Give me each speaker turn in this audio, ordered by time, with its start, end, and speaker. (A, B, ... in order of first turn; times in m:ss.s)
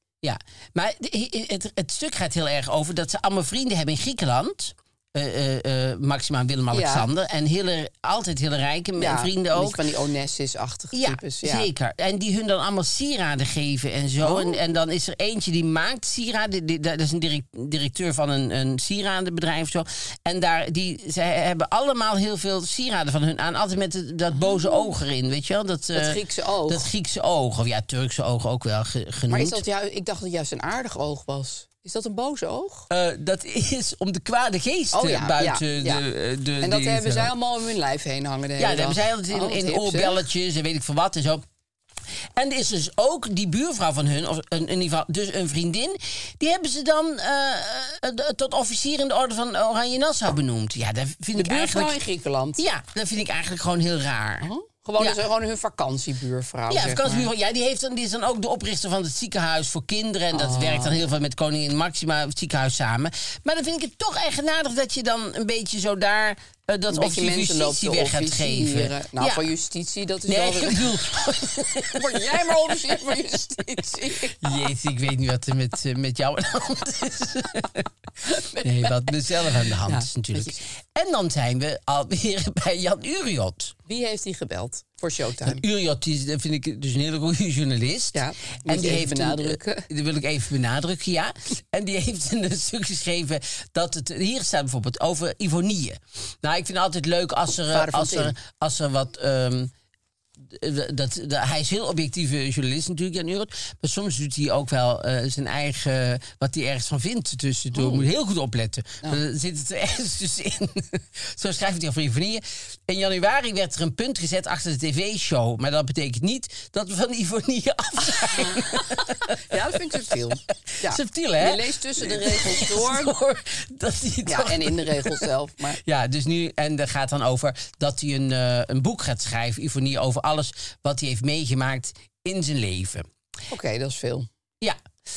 0:00.2-0:09.8 A
0:06.7-0:07.1 B
0:09.0-0:11.7 B
0:10.9-0:29.6 A
0:14.2-0:14.6 B
0:25.9-0:26.9 B
0:29.3-0:32.9 B
0:32.9-0:37.3 A
0:34.9-0:36.0 B
0:36.6-0:40.2 B
0:38.6-0:41.4 A
0:42.4-0:52.0 A
0:51.4-0:52.6 B
0:52.6-0:55.2 A
0:54.4-0:57.3 B
0:56.7-1:09.4 A
1:00.3-1:01.0 B
1:06.9-1:10.8 B
1:10.3-1:12.4 A
1:11.9-1:14.4 B
1:14.4-1:17.9 A
1:18.2-1:19.1 B
1:18.6-1:23.8 A
1:19.8-1:20.6 B
1:23.9-1:25.6 B
1:25.4-1:39.7 A
1:28.1-1:29.9 B
1:37.7-1:38.4 B
1:40.4-1:59.6 A
1:47.7-1:48.1 B
1:59.4-2:03.1 B
2:00.8-2:05.3 A
2:04.2-2:05.8 B
2:05.8-2:13.1 A
2:13.5-2:14.3 B